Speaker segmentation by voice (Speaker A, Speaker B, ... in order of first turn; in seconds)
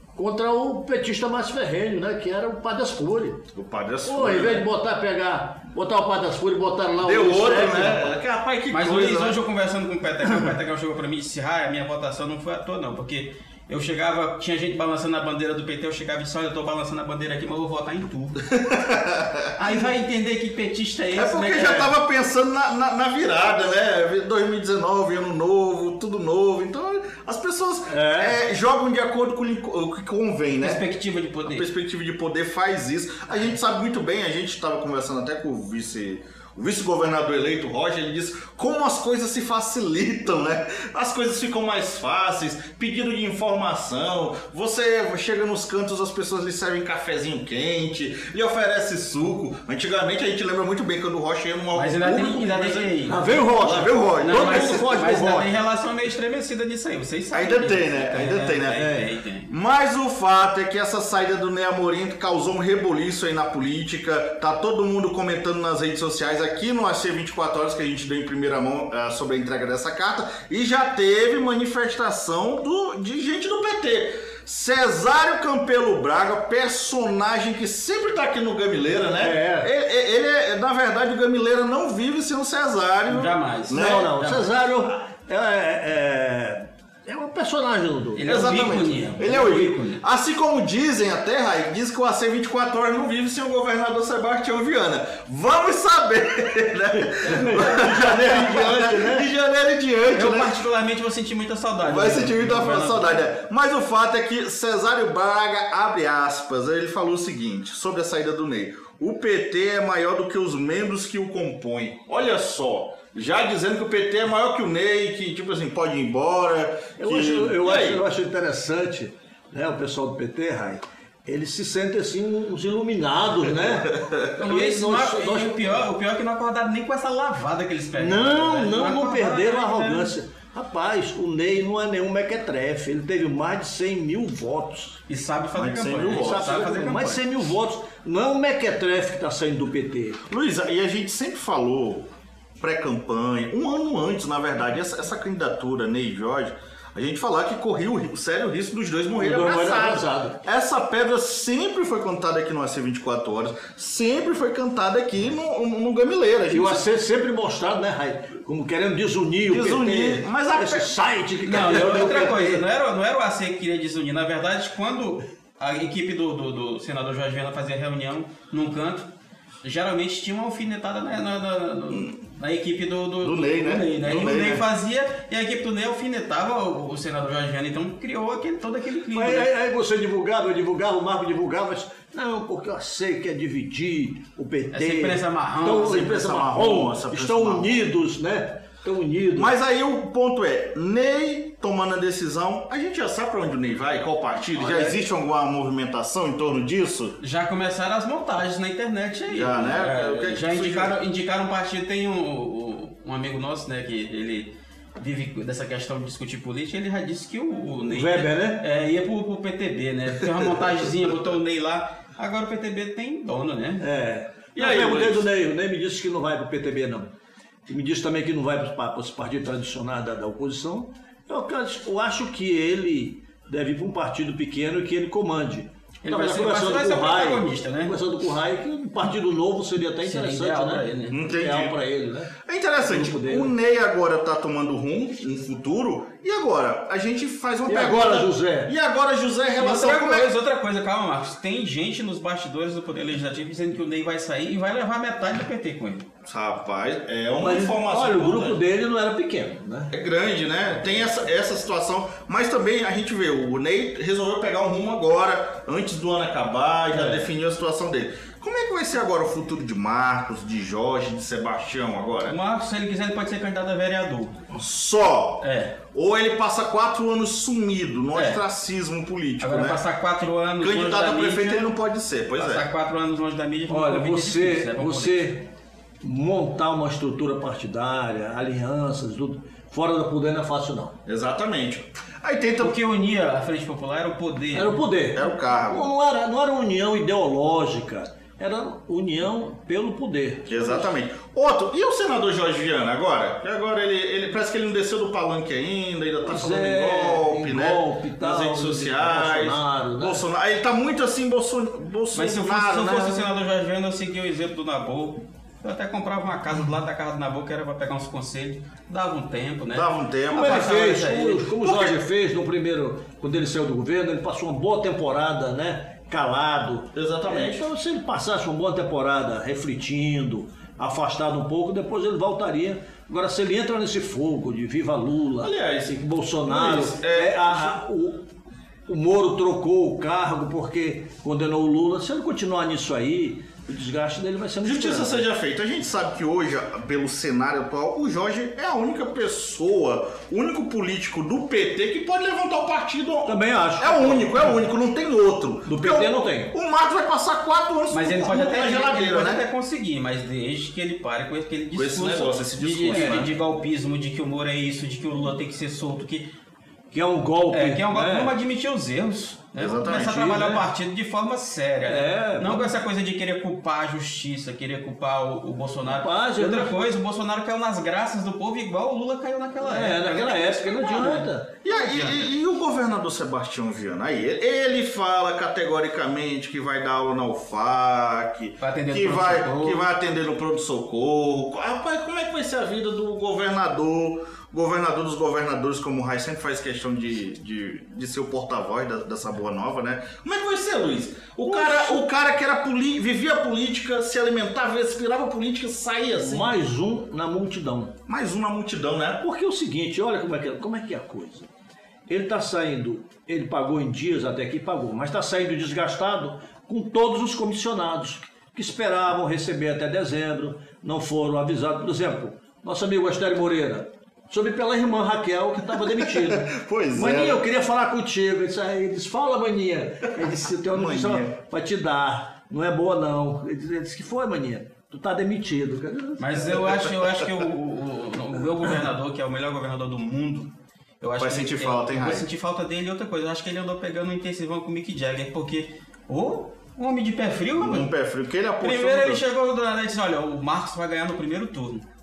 Speaker A: 0.2-3.4, 4.0-8.2, 27.9-28.4, 53.1-55.6, 58.8-59.1, 79.2-79.7, 83.7-88.4, 97.2-99.3, 117.0-125.9, 128.0-135.0, 136.1-140.2, 149.2-150.4, 156.5-162.7, 179.1-189.5, 194.6-195.0, 207.9-208.7, 213.8-217.1, 217.7-233.5, 237.7-238.7, 247.4-249.9, 256.9-257.3, 273.7-275.5, 276.0-281.0, 284.5-290.9, 296.2-300.2, 310.3-328.3, 328.9-335.3, 343.3-344.7, 345.7-346.5, 352.9-353.3, 356.9-358.4, 359.9-360.6, 361.9-362.8, 365.9-366.8, 369.6-371.5, 391.4-392.0, 396.2-397.9, 399.2-401.5, 402.1-426.8
Speaker B: 3.5-4.7, 7.0-9.4, 18.4-19.7, 21.1-30.8, 31.5-55.0, 57.3-58.9, 59.5-84.5, 88.2-100.6, 101.8-118.0, 123.9-124.3, 135.6-136.6, 140.3-142.1, 142.6-156.9, 159.4-161.9, 173.2-174.7, 185.7-187.7, 189.4-197.2, 199.3-201.0, 214.6-215.3, 231.1-231.8, 232.4-240.3, 246.3-248.6, 249.9-262.4, 264.5-269.8, 270.6-272.7, 281.1-282.8, 285.1-285.9, 290.5-303.3, 309.7-310.7, 311.6-312.0, 316.9-317.7, 325.4-327.8, 334.6-349.4, 351.8-353.3, 359.6-360.4, 371.6-396.5, 398.1-399.2, 415.8-417.4, 420.7-421.4, 431.2-432.3, 437.6-439.2
Speaker C: 8.7-18.4, 19.6-21.9, 30.6-31.7, 51.8-53.3, 54.2-59.5, 83.1-84.0, 88.2-90.0, 100.1-103.2, 124.4-130.1, 135.1-137.2, 161.4-169.1, 169.6-179.5, 184.7-186.4, 197.2-213.9, 226.0-228.0, 230.0-231.2, 239.6-246.1, 262.3-264.4, 265.4-265.8, 268.1-268.4, 269.4-271.7, 272.4-275.3, 282.6-284.8, 302.1-311.5, 347.9-356.3, 357.5-372.3, 378.6-379.9, 426.2-437.9, 438.6-441.8